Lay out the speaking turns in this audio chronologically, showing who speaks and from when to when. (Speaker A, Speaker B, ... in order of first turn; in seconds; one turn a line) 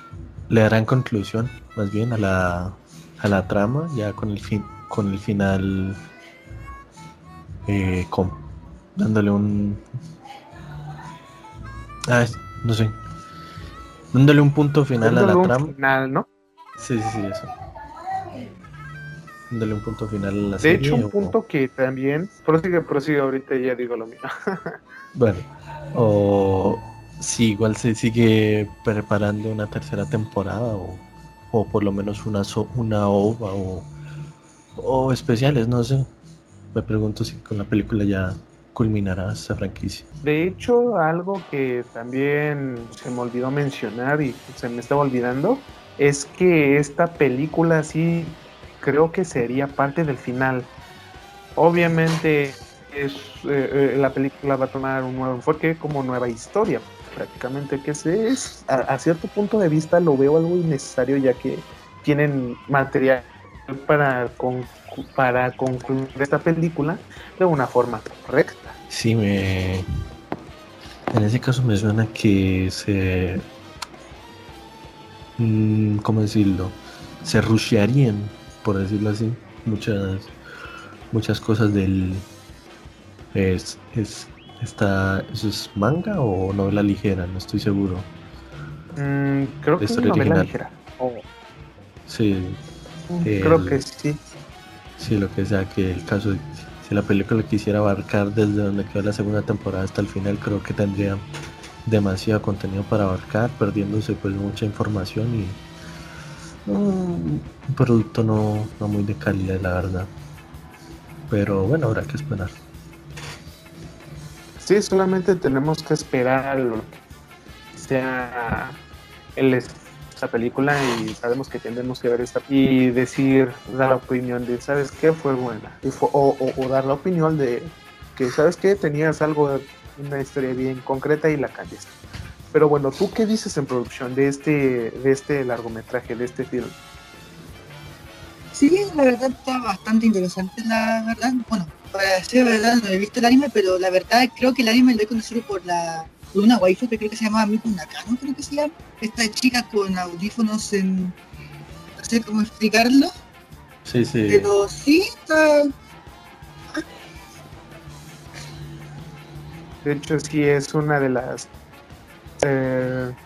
Speaker A: 0.5-6.0
Speaker A: 7.7-8.4
Speaker A: 8.9-9.8
Speaker A: 12.1-13.0
Speaker A: 14.1-15.7
Speaker B: 15.0-16.3
Speaker A: 16.8-17.5
Speaker A: 19.5-21.3
Speaker B: 20.6-24.8
Speaker A: 25.1-33.9
Speaker A: 34.8-36.1
Speaker A: 36.7-40.0
Speaker B: 40.2-50.7
Speaker B: 51.6-68.8
Speaker A: 68.9-69.9
Speaker A: 71.1-73.4
Speaker A: 75.4-80.3
Speaker A: 81.1-82.3
Speaker A: 83.3-88.1
Speaker B: 89.0-91.2
Speaker A: 89.8-90.5
Speaker A: 92.1-92.6
Speaker B: 93.1-94.2
Speaker A: 93.2-93.8
Speaker A: 95.0-101.2
Speaker A: 101.8-105.6
Speaker A: 106.7-110.1
Speaker A: 111.3-112.5
Speaker B: 114.6-117.0
Speaker B: 117.7-118.8
Speaker B: 119.3-131.9
Speaker B: 132.5-136.7
Speaker C: 138.5-151.1
Speaker C: 152.0-153.1
Speaker A: 153.8-154.5
Speaker C: 154.3-155.7
Speaker B: 159.8-161.5
Speaker B: 162.4-163.1